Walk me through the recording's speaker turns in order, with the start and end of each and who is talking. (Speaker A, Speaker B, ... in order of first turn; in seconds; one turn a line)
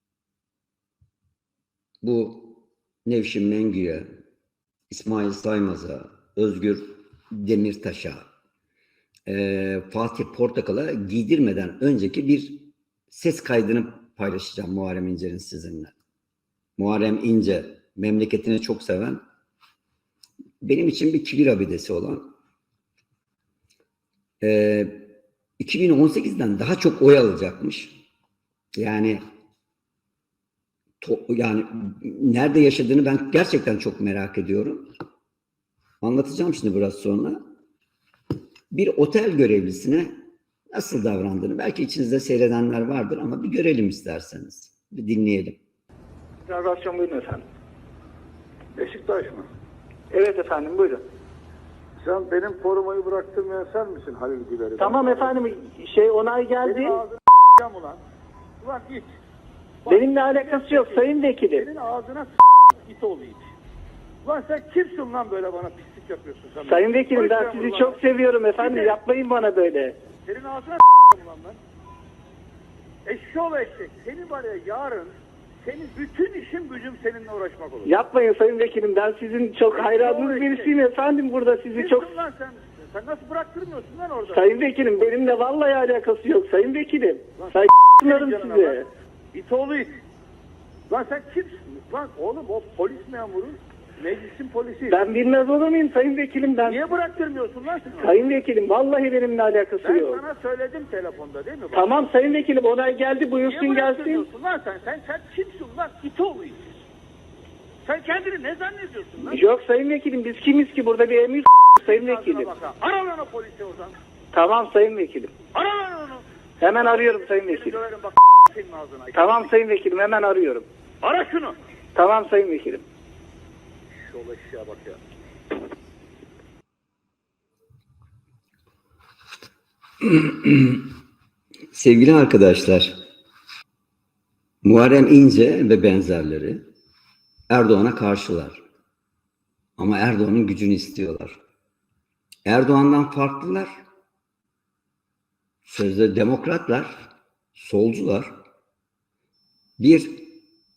Speaker A: 2.0-4.1
Speaker A: 4.9-8.3
Speaker A: 9.3-15.9
Speaker A: 16.8-19.2
Speaker A: 20.6-22.3
Speaker A: 24.4-28.0
Speaker A: 28.8-29.2
Speaker A: 31.0-34.9
Speaker A: 36.0-37.5
Speaker A: 38.7-45.6
Speaker B: 46.5-47.5
Speaker C: 48.8-49.5
Speaker B: 50.1-51.0
Speaker C: 52.0-55.5
Speaker B: 54.8-57.0
Speaker C: 56.6-58.0
Speaker C: 58.6-59.2
Speaker C: 59.8-63.5
Speaker B: 59.9-61.7
Speaker C: 64.2-68.0
Speaker B: 66.7-70.0
Speaker C: 68.6-69.0
Speaker C: 70.2-71.6
Speaker C: 73.1-78.0
Speaker B: 77.9-82.1
Speaker C: 79.7-80.8
Speaker C: 81.7-84.6
Speaker B: 84.3-88.9
Speaker C: 87.4-90.0
Speaker C: 90.9-95.1
Speaker B: 94.9-97.0
Speaker C: 96.7-98.2
Speaker B: 98.0-100.2
Speaker C: 99.8-102.1
Speaker B: 101.7-104.3
Speaker C: 103.4-106.7
Speaker C: 107.8-109.5
Speaker B: 109.3-112.5
Speaker C: 111.8-114.0
Speaker B: 114.3-115.4
Speaker C: 115.5-119.5
Speaker B: 116.6-117.8
Speaker B: 119.1-120.7
Speaker C: 121.0-121.6
Speaker B: 122.0-122.8
Speaker C: 123.9-125.0
Speaker A: 130.0-130.9
Speaker A: 131.7-133.0
Speaker A: 134.6-136.7
Speaker A: 137.5-138.6
Speaker A: 139.8-141.4
Speaker A: 142.5-143.8
Speaker A: 145.7-148.4
Speaker A: 149.8-150.4